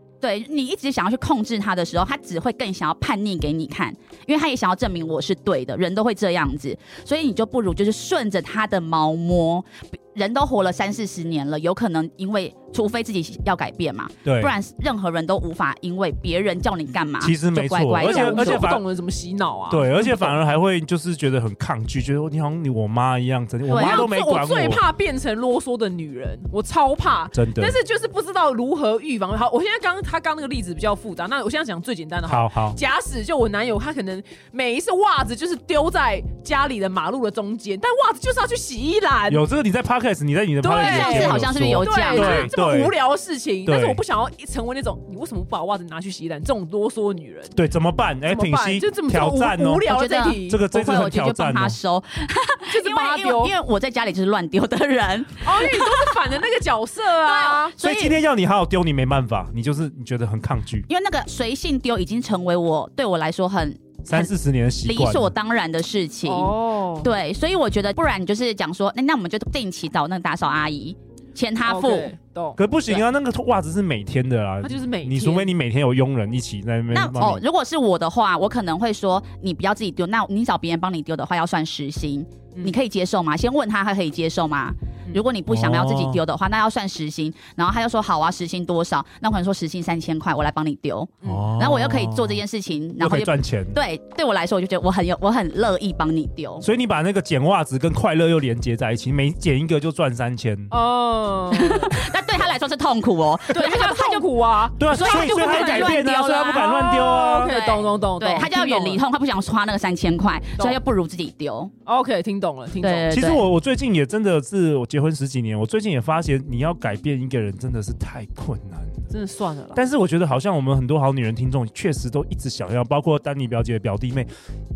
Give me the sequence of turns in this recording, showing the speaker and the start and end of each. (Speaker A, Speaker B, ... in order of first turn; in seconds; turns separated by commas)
Speaker A: 0.2-18.7, Speaker B: 14.2-14.5, Speaker B: 17.2-18.8, Speaker C: 18.0-20.4, Speaker B: 19.7-24.8, Speaker A: 23.7-24.1, Speaker C: 23.7-39.4, Speaker B: 27.3-27.8, Speaker B: 32.2-32.8, Speaker B: 39.3-42.9, Speaker C: 40.6-47.6, Speaker A: 40.8-42.5, Speaker B: 43.6-44.0, Speaker B: 47.5-51.8, Speaker C: 48.3-50.6, Speaker A: 49.9-56.1, Speaker C: 52.7-53.5, Speaker C: 55.4-57.8, Speaker A: 57.2-58.2, Speaker B: 57.8-60.9, Speaker A: 60.9-72.1, Speaker B: 64.0-65.3, Speaker C: 66.2-67.1, Speaker C: 71.7-72.6, Speaker B: 72.6-77.4, Speaker C: 74.6-75.5, Speaker A: 76.9-96.7, Speaker B: 85.5-86.2, Speaker B: 91.2-92.4, Speaker B: 93.0-93.8, Speaker B: 96.6-100.7, Speaker C: 100.7-102.0, Speaker A: 101.5-104.3, Speaker C: 103.5-109.0, Speaker B: 104.8-107.5, Speaker A: 104.9-106.9, Speaker A: 107.4-111.7, Speaker C: 111.8-113.1, Speaker A: 112.8-113.5, Speaker B: 113.1-119.1, Speaker C: 119.1-119.8, Speaker B: 119.7-124.3